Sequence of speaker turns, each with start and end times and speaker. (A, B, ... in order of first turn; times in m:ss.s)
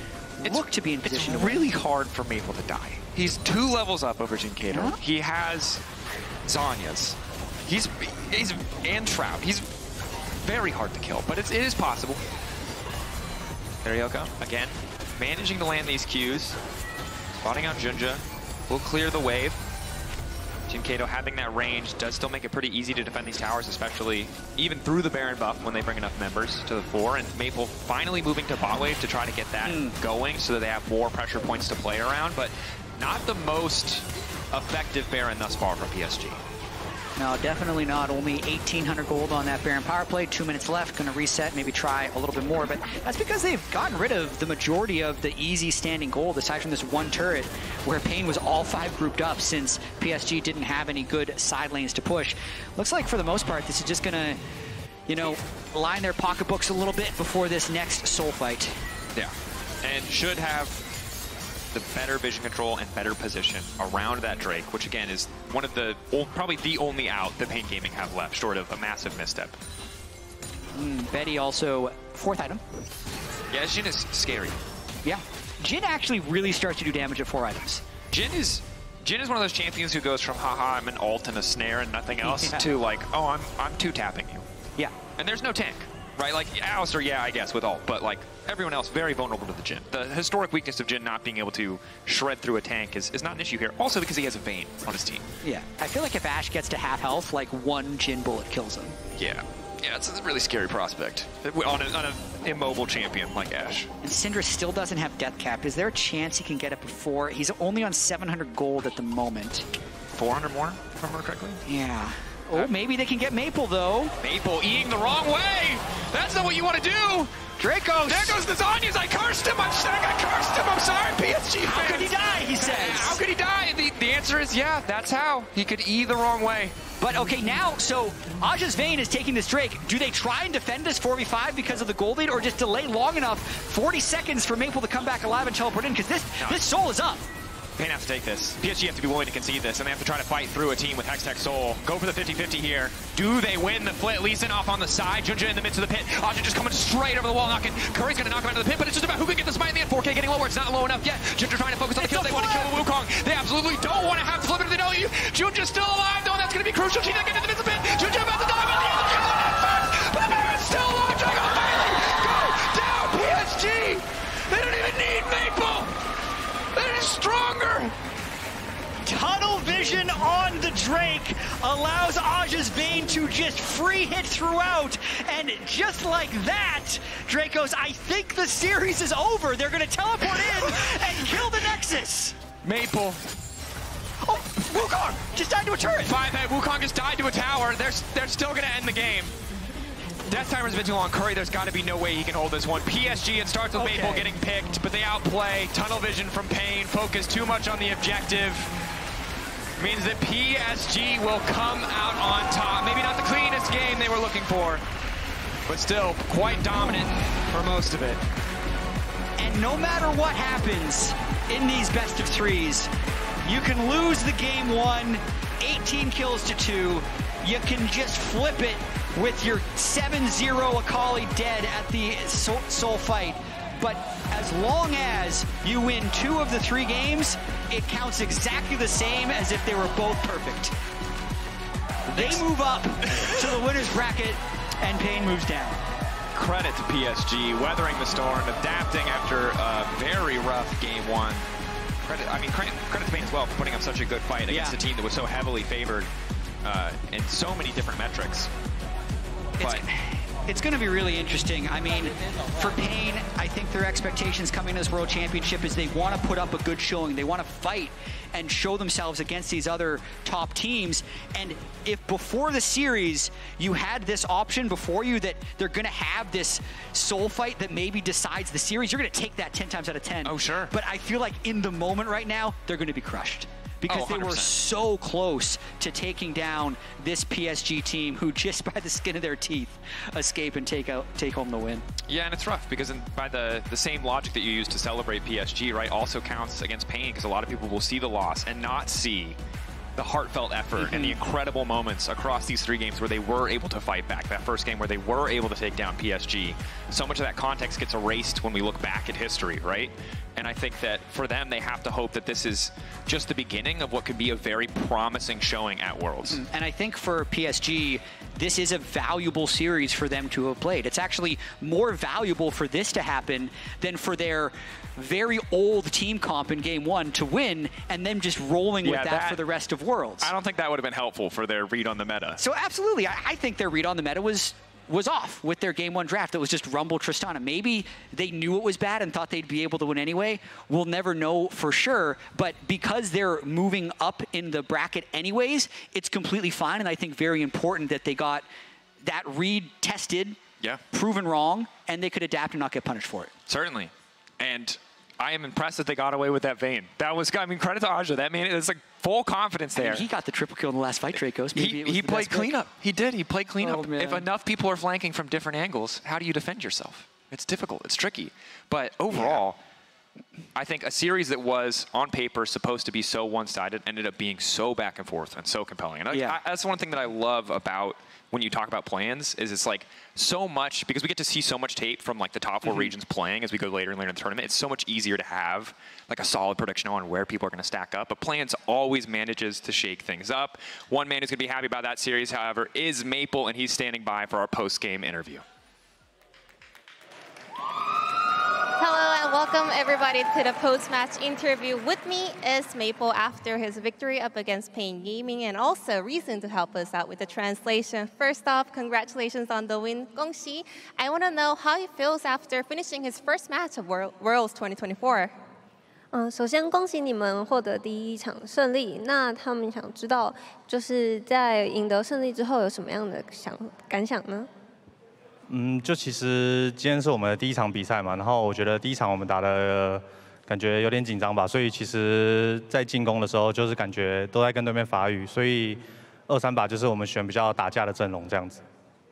0:00.4-0:01.7 A
0:00.4-0:05.8 B
0:04.7-0:05.0 A
0:06.4-0:09.7 B
0:10.4-0:12.2 B
0:13.8-0:16.6 B
0:17.4-0:19.6 B
0:20.7-0:36.4 B
0:29.6-0:30.0 A
0:37.2-0:54.4 A
0:55.1-0:58.7 A
0:59.1-1:00.8 B
1:01.7-1:09.6 B
1:10.7-1:12.6 A
1:13.5-1:14.6 B
1:15.0-1:17.8 A
1:18.1-1:24.4 B
1:22.2-1:22.7 A
1:25.2-1:35.3 B
1:35.4-1:39.0 A
1:39.1-1:43.9 B
1:44.0-1:49.7 A
1:50.1-1:51.6 B
1:51.6-1:54.1 A
1:54.2-1:57.3 B
1:57.6-1:58.4 A
1:58.0-2:06.8 B
2:01.6-2:03.2 A
2:07.0-2:17.3 A
2:17.8-2:45.9 B
2:32.0-2:32.7 A
2:46.7-2:47.9 B
2:49.0-3:02.4 A
3:00.4-3:01.6 B
3:02.6-3:03.2 B
3:04.2-3:06.1 A
3:06.0-3:09.3 B
3:10.3-3:18.7 B
3:13.7-3:14.3 A
3:19.8-3:24.8 B
3:25.7-3:28.2 B
3:29.4-3:32.9 A
3:33.4-3:50.8 A
3:52.1-3:55.8 A
3:52.1-3:52.4 B
3:56.3-4:01.4 B
4:02.0-4:06.1 B
4:04.5-4:04.8 A
4:06.6-4:08.5 B
4:09.6-4:41.8 A
4:30.2-4:30.7 B
4:33.9-4:34.5 B
4:42.1-4:49.4 B
4:50.0-5:06.4 B
4:50.8-4:51.2 A
5:06.3-5:20.3 A
5:18.8-5:19.4 B
5:20.2-5:22.4 B
5:22.4-5:38.5 A
5:39.0-5:40.4 A
5:40.9-5:43.3 A
5:43.5-5:50.0 B
5:49.8-5:52.5 A
5:51.5-5:59.6 B
5:53.6-5:54.2 A
5:59.1-5:59.4 A
6:00.5-6:25.4 B
6:06.1-6:06.4 A
6:28.8-6:45.3 C
6:46.1-6:54.5 D
6:55.5-7:08.6 E